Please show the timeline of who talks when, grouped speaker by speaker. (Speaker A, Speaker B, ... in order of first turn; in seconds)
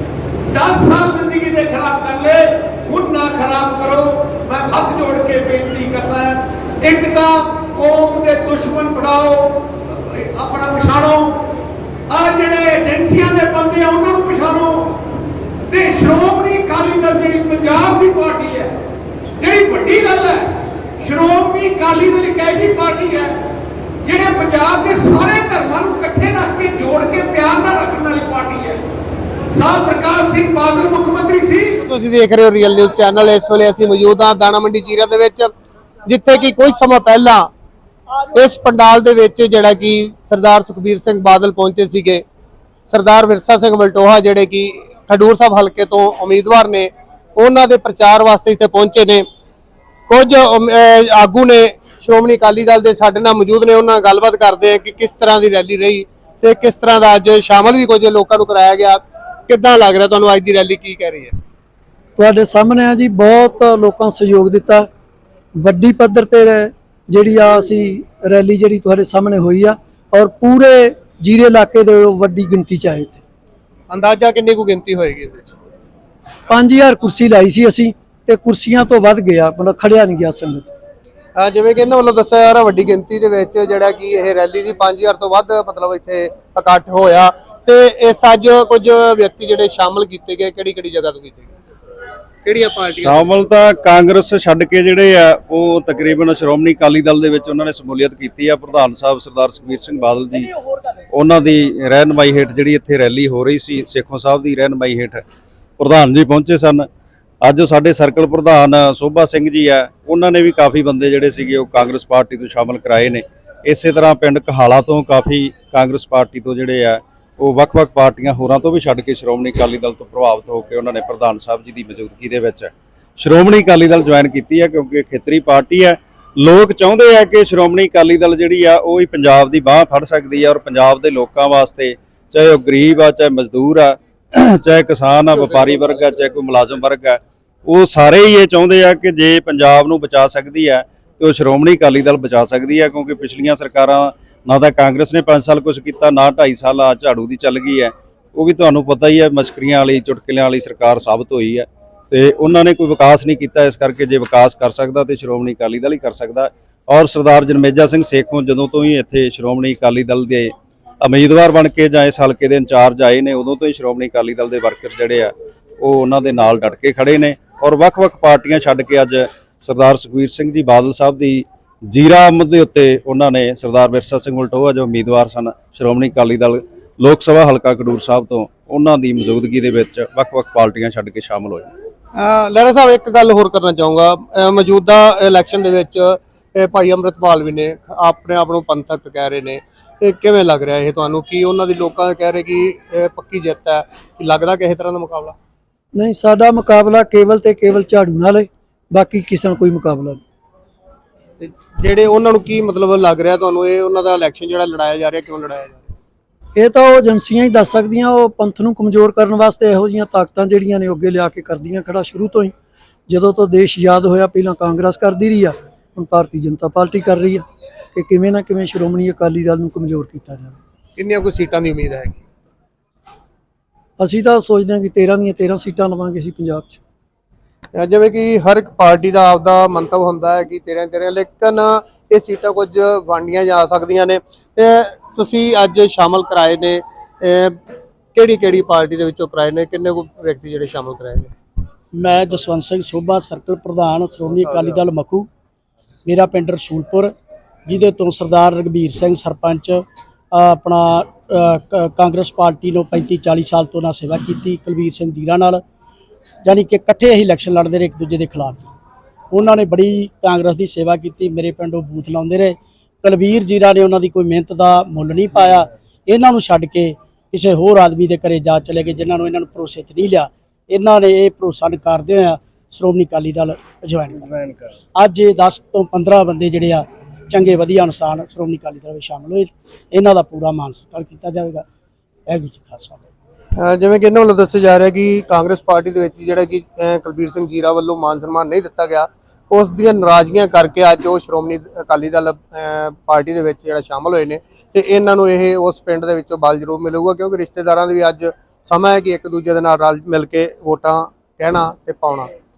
Speaker A: 0.5-11.4, 12.1-14.9, 15.7-18.7, 19.4-20.5, 21.0-23.4, 24.0-28.8, 29.5-31.8
Speaker B: 31.8-35.5, 36.0-37.5, 38.3-42.2, 42.9-49.2, 50.1-61.3, 73.9-75.5, 81.3-91.5, 92.4-93.3, 182.2-195.3, 201.4-205.8, 221.0-222.2, 227.7-237.6, 238.1-241.3, 283.6-302.3
Speaker C: 62.2-64.9, 65.6-73.2, 76.5-80.7, 195.9-200.2, 206.6-212.5, 213.1-217.4, 217.9-220.6, 224.0-226.8
Speaker D: 92.7-100.5, 101.1-105.2, 105.8-106.9, 107.4-181.7
Speaker E: 241.9-245.3, 246.0-247.1, 247.7-255.6, 256.4-258.7, 259.3-274.4, 274.9-281.6, 282.3-283.1